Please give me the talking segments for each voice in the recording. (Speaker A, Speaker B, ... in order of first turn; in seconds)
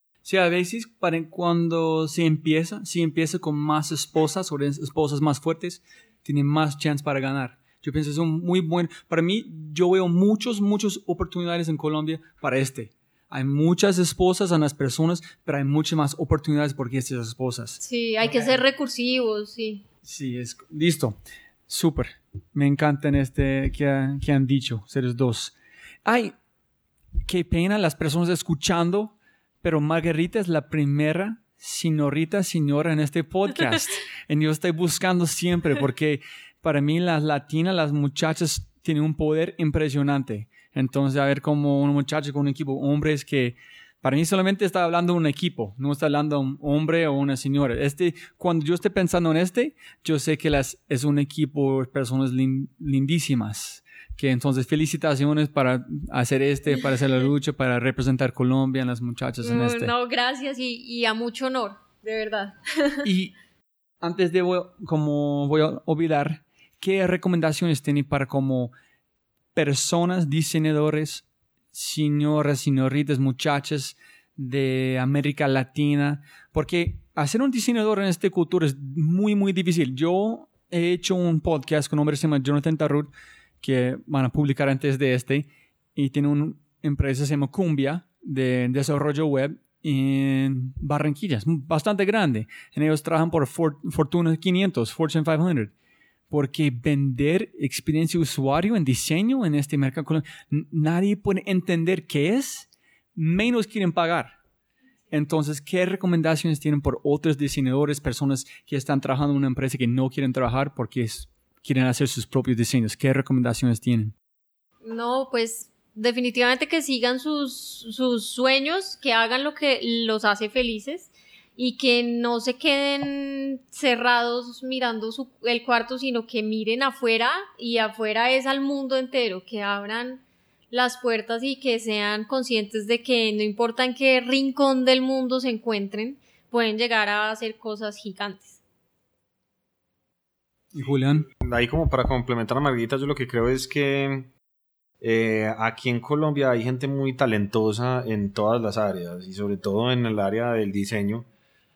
Speaker A: 0.2-17.8, 20.0-21.2, 21.7-25.5, 26.1-26.4, 27.2-59.9, 63.0-63.3, 64.0-68.7, 69.5-95.7, 96.3-104.4, 105.1-114.1, 140.7-141.3
Speaker B: 17.8-19.8, 59.4-63.1, 114.8-138.6
Speaker C: 141.4-144.3, 145.0-151.3